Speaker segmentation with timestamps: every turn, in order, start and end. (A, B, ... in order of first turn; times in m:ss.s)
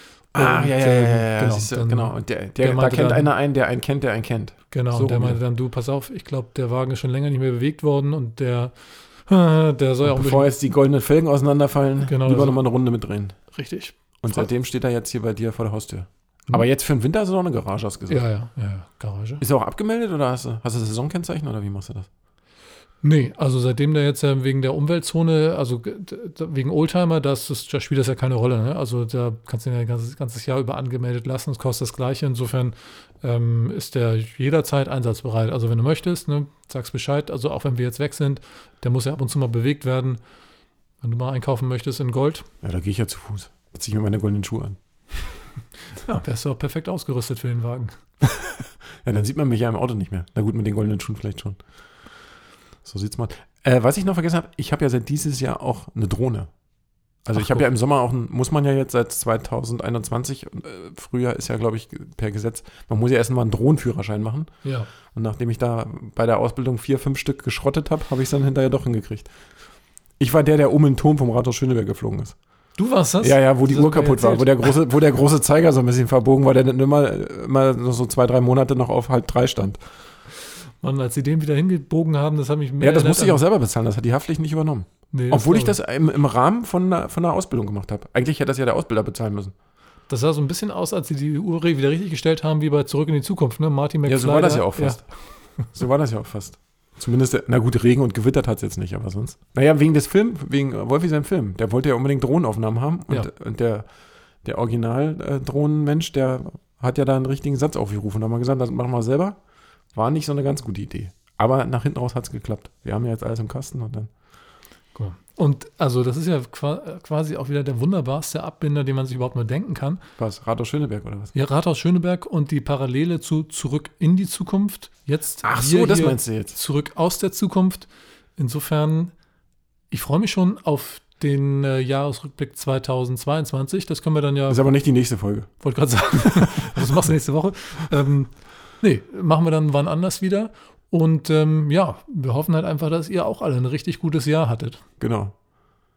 0:00.3-0:03.3 A
0:00.3-0:05.4 B
0:04.7-0:10.5 A
0:10.0-0:13.4 B
0:12.0-0:12.6 A
0:13.5-0:14.5 A
0:14.2-0:18.2 B
0:18.1-0:19.4 A
0:19.4-0:22.1 B
0:23.0-0:40.2 A
0:41.0-0:42.5 A
0:42.6-0:44.8 B
0:46.0-0:48.0 A
0:48.3-0:51.6 B
0:52.8-0:56.5 B
0:57.3-1:04.5 B
0:57.3-0:57.6 A
1:04.6-1:04.9 A
1:05.1-1:09.3 B
1:10.2-1:12.4 B
1:12.8-1:14.7 A
1:13.2-1:19.8 B
1:20.8-1:23.4 A
1:22.8-1:29.5 B
1:25.1-1:25.8 A
1:30.1-1:35.0 A
1:34.1-1:35.0 B
1:35.7-1:43.9 B
1:44.4-1:49.4 B
1:49.9-1:54.1 B
1:55.0-2:00.0 A
2:00.2-2:01.3 B
2:01.3-2:09.1 A
2:05.4-2:06.6 B
2:09.9-2:14.7 A
2:14.5-2:15.5 B
2:15.6-2:24.8 A
2:16.3-2:17.0 B
2:25.0-2:25.3 B